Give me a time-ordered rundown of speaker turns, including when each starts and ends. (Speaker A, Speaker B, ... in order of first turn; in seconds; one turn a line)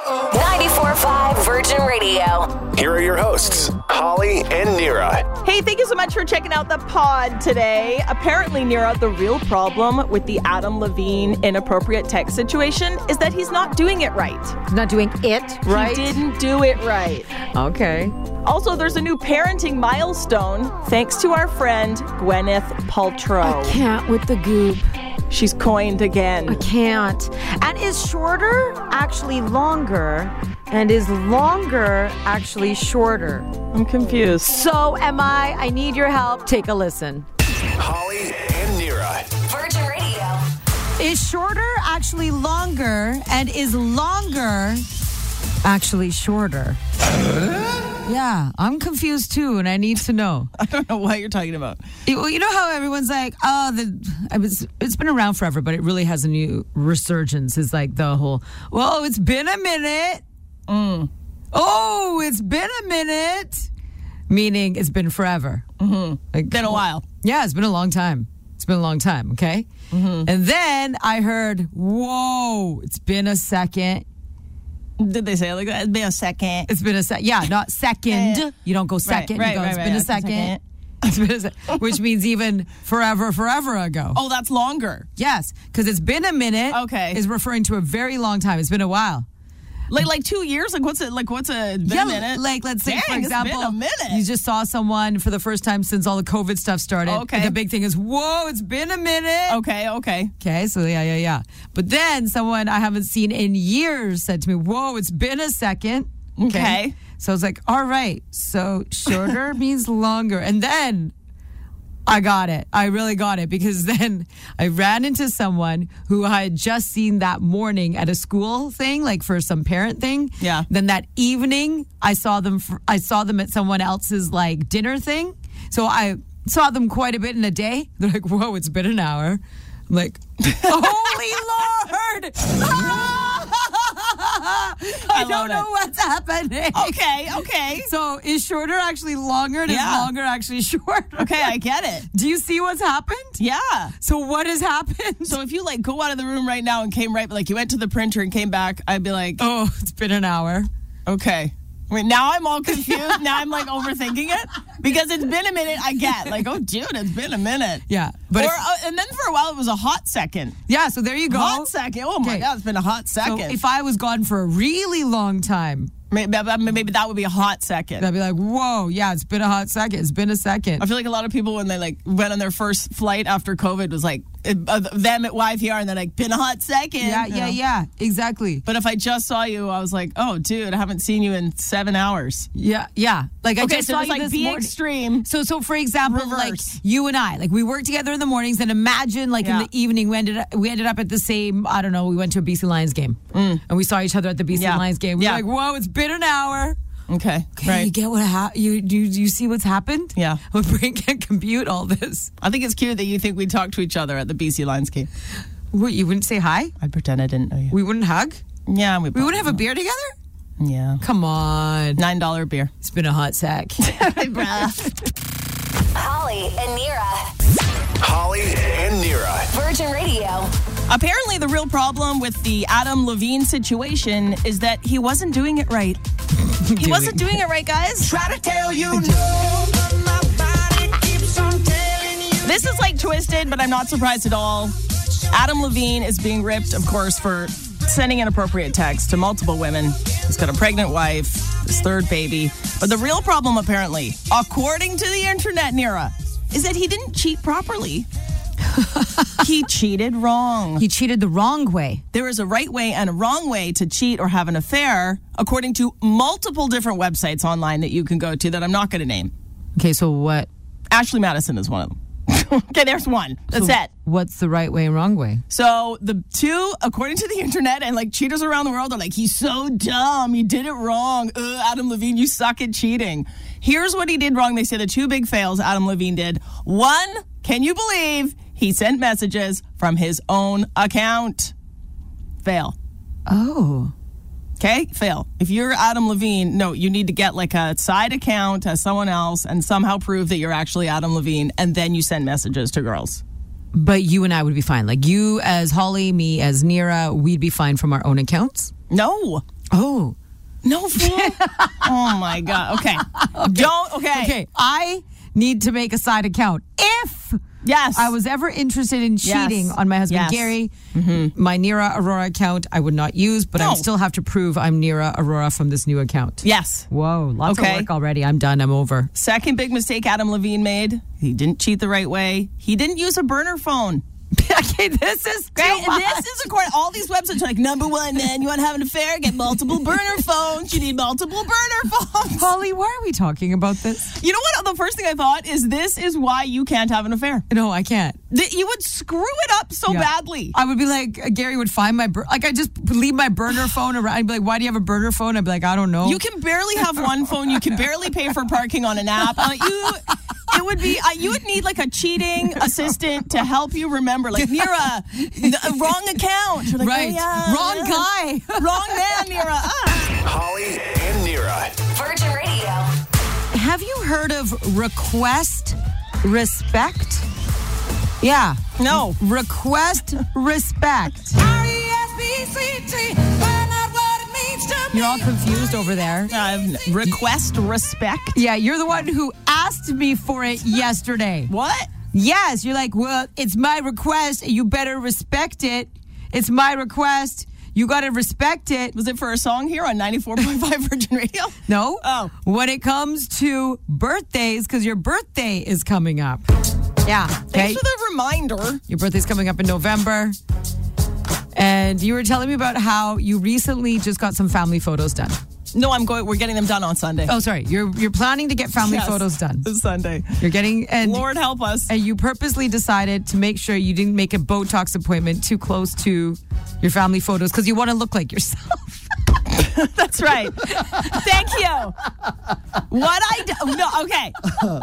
Speaker A: 0.3-2.6
Speaker B: 2.7-5.3
Speaker C: 5.4-14.6
Speaker D: 14.7-16.2
Speaker C: 15.7-17.3
Speaker D: 17.5-18.2
Speaker C: 18.4-23.8
Speaker D: 23.4-24.9
Speaker C: 25.3-26.6
Speaker D: 26.5-33.5
Speaker C: 33.7-34.6
Speaker D: 34.4-37.3
Speaker B: 37.8-39.3
Speaker A: 39.5-40.5
Speaker D: 41.0-44.9
Speaker D: 45.6-46.8
Speaker D: 48.0-50.5
Speaker C: 50.6-51.8
Speaker D: 52.1-60.2
Speaker C: 60.7-61.1
Speaker D: 61.5-63.7
Speaker D: 64.3-65.7
Speaker C: 65.8-67.0
Speaker D: 66.3-69.7
Speaker C: 69.9-70.3
Speaker D: 70.2-74.0
Speaker C: 75.0-76.7
Speaker D: 76.7-84.2
Speaker C: 78.1-78.5
Speaker C: 79.0-80.6
Speaker C: 84.1-85.1
Speaker D: 85.2-89.3
Speaker C: 86.7-87.2
Speaker C: 89.9-94.2
Speaker D: 91.9-99.6
Speaker C: 97.0-97.6
Speaker C: 99.5-100.3
Speaker D: 100.4-111.1
Speaker C: 106.4-107.0
Speaker D: 112.1-137.0
Speaker C: 120.4-120.7
Speaker C: 130.7-131.1
Speaker C: 135.1-135.7
Speaker C: 136.7-137.9
Speaker D: 137.9-141.5
Speaker C: 139.7-140.1
Speaker C: 141.2-142.1
Speaker D: 142.1-143.4
Speaker C: 143.4-143.9
Speaker D: 144.0-145.3
Speaker C: 145.3-149.4
Speaker D: 149.4-150.7
Speaker C: 151.1-160.6
Speaker D: 152.9-153.2
Speaker D: 157.9-158.5
Speaker D: 160.7-161.7
Speaker C: 161.3-163.6
Speaker D: 163.2-165.9
Speaker C: 166.1-168.1
Speaker D: 168.0-170.8
Speaker C: 170.8-177.6
Speaker D: 177.0-178.6
Speaker C: 178.7-182.5
Speaker D: 182.6-184.7
Speaker C: 183.6-185.3
Speaker D: 185.2-196.8
Speaker C: 186.1-186.7
Speaker C: 189.4-189.7
Speaker C: 193.3-193.6
Speaker C: 194.5-195.4
Speaker C: 197.1-197.9
Speaker D: 197.6-202.3
Speaker C: 200.2-200.4
Speaker C: 202.4-205.1
Speaker D: 205.7-206.7
Speaker C: 206.8-207.7
Speaker D: 207.7-208.4
Speaker C: 208.7-209.6
Speaker D: 209.1-210.1
Speaker C: 210.6-211.0
Speaker D: 211.0-212.0
Speaker C: 212.0-212.7
Speaker D: 212.8-213.9
Speaker C: 213.8-214.9
Speaker A: 216.0-217.3
Speaker B: 218.0-219.5
Speaker A: 219.5-220.5
Speaker C: 220.9-226.0
Speaker D: 226.5-227.4
Speaker C: 226.8-228.2
Speaker E: 228.1-232.4
Speaker C: 232.4-234.8
Speaker C: 235.3-248.1
Speaker D: 248.7-249.3
Speaker C: 249.4-250.8
Speaker D: 250.8-252.0
Speaker C: 252.1-259.3
Speaker D: 259.8-260.5
Speaker C: 260.9-263.9
Speaker D: 263.5-265.4
Speaker C: 265.5-281.5
Speaker C: 282.4-282.8
Speaker D: 283.3-283.9
Speaker C: 284.6-293.2
Speaker D: 293.7-298.7
Speaker C: 298.9-299.4
Speaker D: 299.7-300.2
Speaker C: 300.6-304.3
Speaker D: 301.0-301.9
Speaker D: 303.1-307.4
Speaker C: 307.6-308.1
Speaker D: 307.9-310.7
Speaker C: 309.2-311.3
Speaker D: 311.4-319.1
Speaker C: 313.6-313.9
Speaker C: 316.4-316.9
Speaker C: 317.5-317.9
Speaker C: 319.2-324.0
Speaker D: 324.3-326.3
Speaker C: 325.6-332.5
Speaker D: 332.4-334.1
Speaker C: 334.2-337.5
Speaker D: 337.5-338.2
Speaker C: 338.3-340.5
Speaker D: 339.9-346.2
Speaker C: 346.0-358.1
Speaker D: 354.4-356.0
Speaker D: 356.8-359.1
Speaker C: 358.6-360.0
Speaker B: 360.2-361.8
Speaker A: 361.9-362.9
Speaker D: 363.5-367.2
Speaker D: 368.2-371.4
Speaker C: 368.8-369.2
Speaker E: 371.4-375.3
Speaker D: 374.9-376.4
Speaker C: 376.3-378.4
Speaker D: 378.4-381.5
Speaker C: 381.5-381.9
Speaker D: 382.1-388.9
Speaker C: 388.9-392.3
Speaker D: 391.7-396.4
Speaker D: 397.1-397.8
Speaker C: 397.5-398.8
Speaker D: 398.9-400.4
Speaker D: 401.5-405.4
Speaker C: 405.7-407.3
Speaker D: 407.3-409.7
Speaker C: 408.8-410.4
Speaker D: 410.4-411.3
Speaker C: 411.0-411.9
Speaker D: 411.9-419.1
Speaker C: 419.5-422.0
Speaker D: 420.8-421.2
Speaker C: 422.9-424.5